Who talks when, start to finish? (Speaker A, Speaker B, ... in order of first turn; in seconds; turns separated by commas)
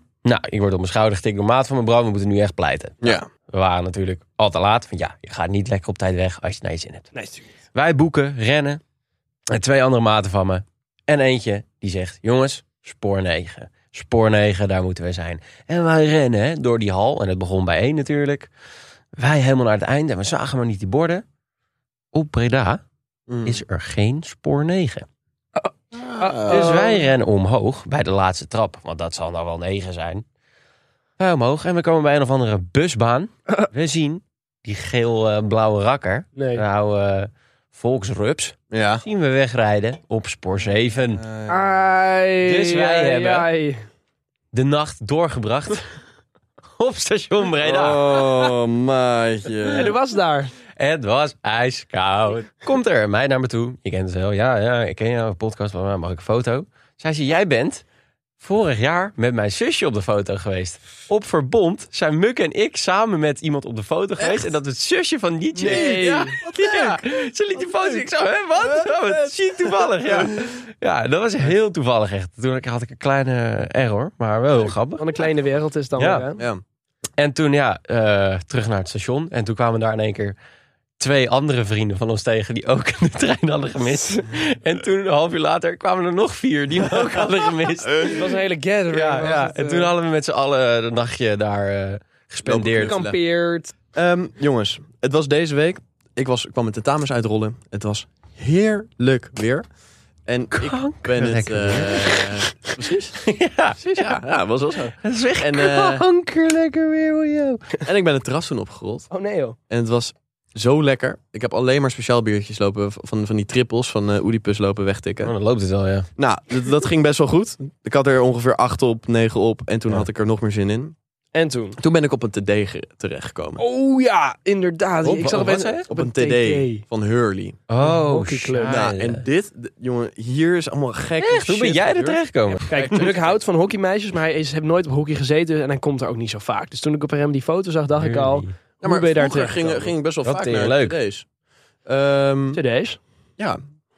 Speaker A: 0.2-7.1, Speaker B: 3.0-3.3, Speaker C: 7.1-7.5, Speaker A: 7.7-8.8, Speaker A: 9.5-18.5, Speaker A: 19.1-21.2, Speaker A: 22.1-22.8, Speaker B: 23.3-23.6, Speaker A: 23.4-25.1, Speaker C: 25.6-26.9, Speaker B: 26.0-27.0, Speaker A: 26.5-30.2, Speaker A: 31.2-41.2, Speaker C: 36.4-36.6, Speaker B: 38.7-39.0, Speaker B: 41.1-41.6, Speaker C: 41.5-43.9, Speaker A: 42.4-43.5, Speaker A: 44.5-46.0, Speaker A: 46.8-48.5, Speaker B: 47.6-49.9, Speaker C: 49.7-50.5, Speaker A: 50.8-57.8, Speaker A: 58.4-75.0, Speaker B: 64.2-64.5, Speaker C: 65.5-66.3, Speaker B: 65.7-67.0, Speaker B: 67.6-68.0, Speaker B: 68.6-70.4, Speaker C: 75.0-76.4, Speaker A: 76.0-76.2, Speaker A: 77.2-80.3, Speaker A: 81.0-88.3, Speaker C: 87.9-89.9, Speaker A: 88.9-93.0, Speaker B: 92.4-93.2, Speaker C: 92.7-93.7, Speaker B: 93.9-99.6, Speaker B: 100.2-103.2, Speaker A: 100.5-102.4, Speaker A: 103.2-104.2, Speaker B: 103.8-106.0, Speaker A: 105.0-107.8, Speaker B: 107.8-109.1, Speaker C: 109.1-109.5, Speaker B: 109.7-115.3, Speaker A: 115.2-116.1, Speaker B: 116.2-120.9, Speaker C: 121.3-121.8, Speaker B: 121.8-123.6, Speaker C: 123.6-126.8, Speaker A: 125.0-125.8, Speaker B: 125.9-127.6, Speaker A: 127.7-129.2, Speaker C: 127.8-128.8, Speaker B: 128.7-133.4, Speaker A: 131.2-133.0, Speaker C: 132.7-139.9, Speaker A: 137.9-138.5, Speaker B: 138.8-141.2, Speaker A: 140.2-140.9, Speaker B: 141.8-142.6, Speaker C: 142.5-143.0